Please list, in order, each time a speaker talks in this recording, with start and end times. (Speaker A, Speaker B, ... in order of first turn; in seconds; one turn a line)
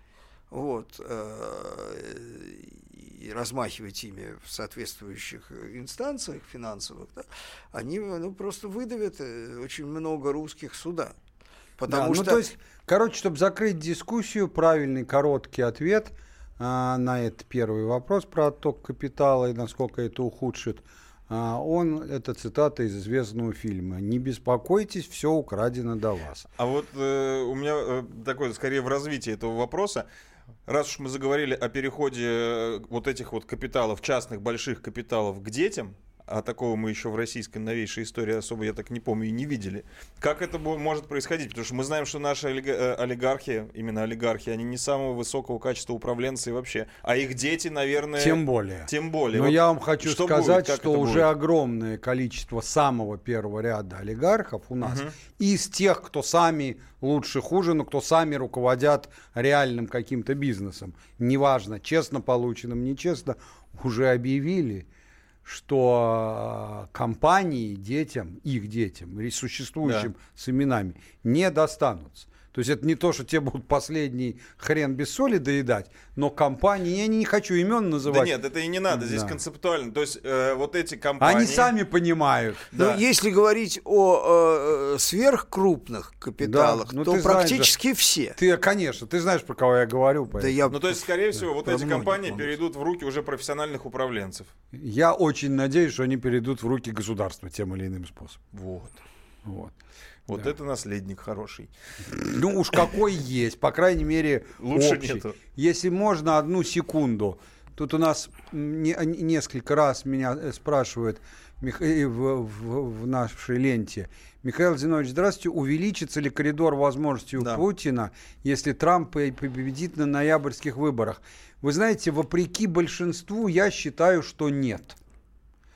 Speaker A: 0.5-11.2
Speaker A: 11.8-12.5
Speaker B: 11.9-26.5
Speaker C: 26.6-30.1
Speaker C: 30.7-51.3
Speaker B: 48.2-64.9
Speaker C: 54.8-55.1
Speaker B: 65.5-78.3
Speaker C: 69.8-70.1
Speaker C: 78.0-81.7
Speaker B: 78.9-79.4
Speaker B: 81.2-82.7
Speaker C: 82.7-83.0
Speaker A: 82.7-88.4
Speaker B: 86.4-87.7
Speaker B: 88.3-90.6
Speaker A: 90.4-91.0
Speaker C: 90.7-94.5
Speaker A: 91.6-92.5
Speaker B: 94.7-98.5
Speaker C: 98.5-99.0
Speaker B: 99.5-99.7
Speaker C: 100.3-101.7
Speaker B: 102.1-125.0
Speaker C: 104.6-105.4
Speaker C: 117.4-117.6